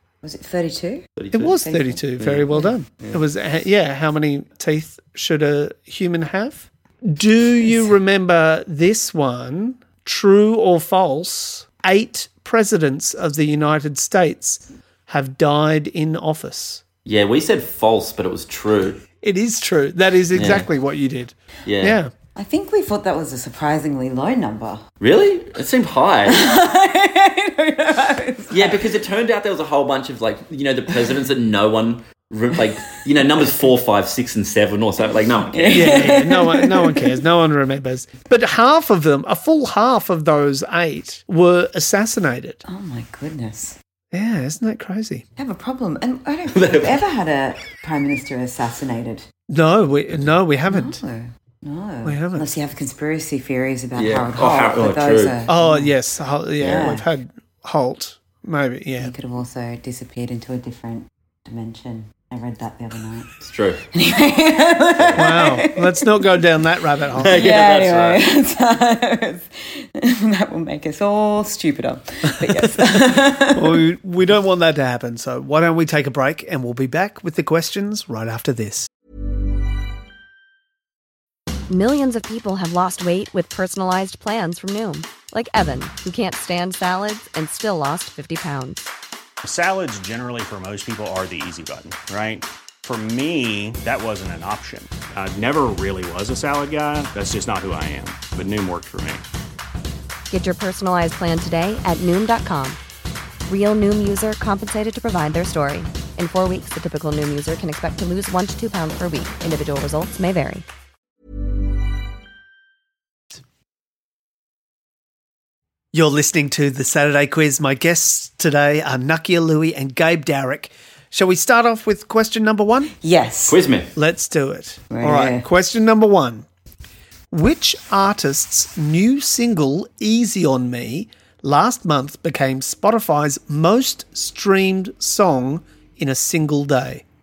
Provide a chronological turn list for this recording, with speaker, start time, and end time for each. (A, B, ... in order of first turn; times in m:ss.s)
0:00.2-0:01.0 A
0:01.2-0:01.6 B
0:01.3-0:16.8 C
0:01.6-0:02.0 A
0:02.2-0:03.2 B
0:17.0-0:19.0 B
0:19.2-0:22.1 C
0:20.3-0:20.7 B
0:21.6-0:22.0 B
0:22.3-0:24.8 A
0:25.0-0:26.4 B
0:26.3-0:28.8 A
0:28.5-0:36.2 B
0:35.5-0:37.2 A
0:35.7-0:42.6 C
0:42.6-0:43.8 A
0:44.1-0:45.2 C
0:45.4-0:49.3 A
0:46.5-0:47.0 B
0:49.5-0:51.0 C
0:50.7-0:55.9 A
0:52.0-0:52.5 C
0:54.0-0:55.4 B
0:55.5-0:59.1 C
0:56.6-0:57.1 A
0:59.0-1:03.3 A
1:03.4-1:03.8 B
1:03.9-1:06.2 A
1:05.2-1:07.5 C
1:07.2-1:08.2 B
1:07.3-1:13.8 A
1:13.5-1:18.9 C
1:21.7-1:28.8 D
1:29.4-1:39.2 E
1:40.3-1:42.8 D
1:43.5-1:50.6 D
1:55.9-2:02.9 C
2:03.0-2:03.6 A
2:03.5-2:03.9 B
2:04.0-2:06.4 C
2:04.9-2:05.5 A
2:07.3-2:17.0 C